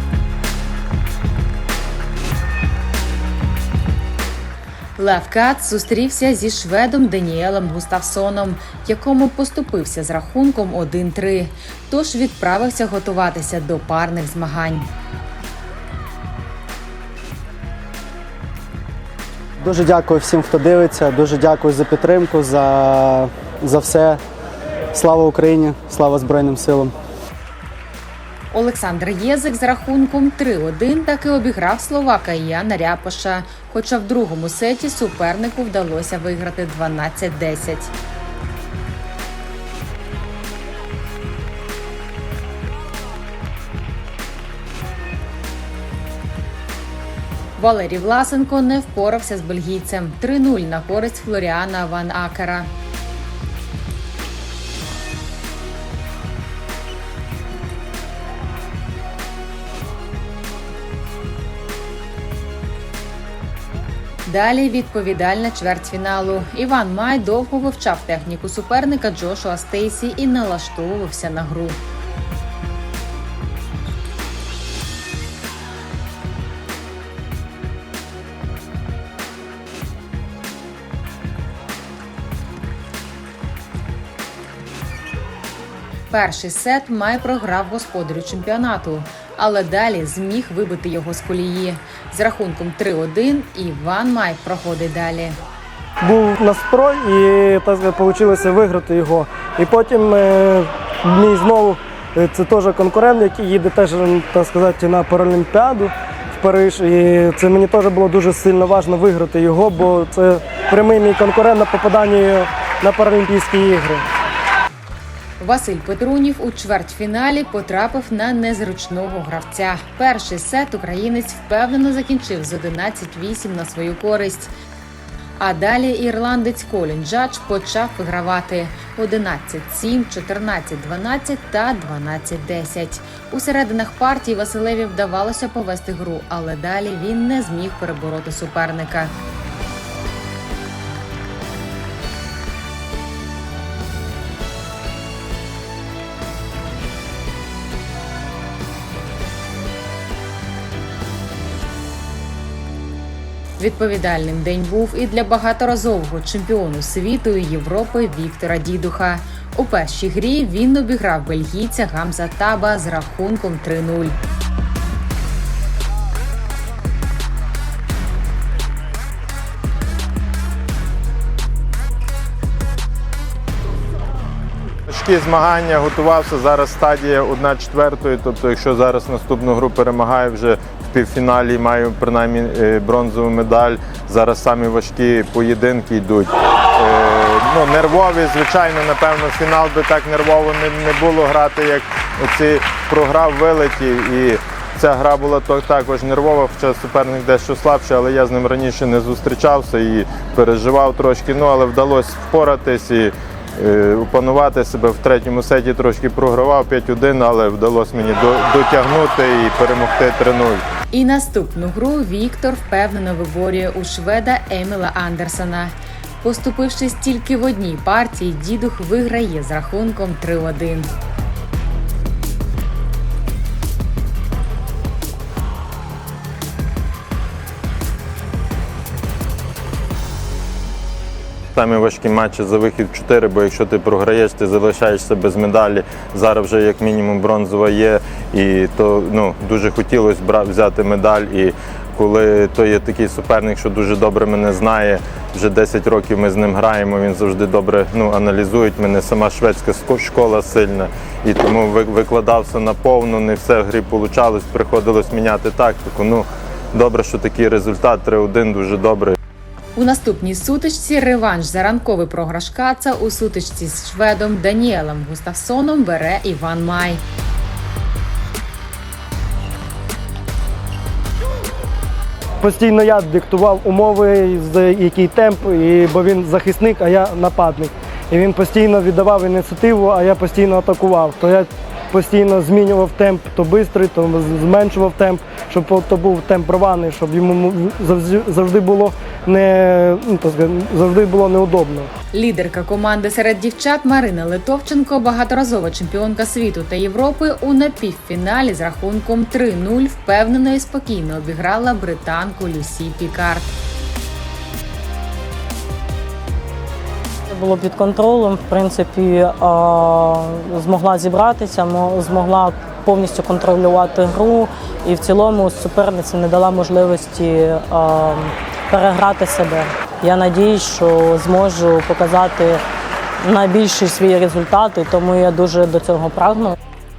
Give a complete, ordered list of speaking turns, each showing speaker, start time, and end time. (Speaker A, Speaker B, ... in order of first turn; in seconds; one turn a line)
Speaker A: 5.0-14.9
Speaker B: 19.6-24.2
Speaker B: 24.9-26.9
Speaker A: 28.5-37.9
Speaker A: 47.6-52.7
Speaker A: 64.3-71.8
Speaker A: 86.1-95.4
Speaker C: 96.0-114.1
Speaker A: 115.4-124.5
Speaker A: 125.4-139.1
Speaker A: 153.6-164.2
Speaker D: 174.9-210.6
Speaker A: 210.9-220.9
Speaker D: 231.6-259.2
Speaker A: 259.8-267.0
Speaker C: 272.4-291.9
Speaker A: 292.1-303.5
Speaker E: 307.3-322.6
Speaker E: 323.2-326.6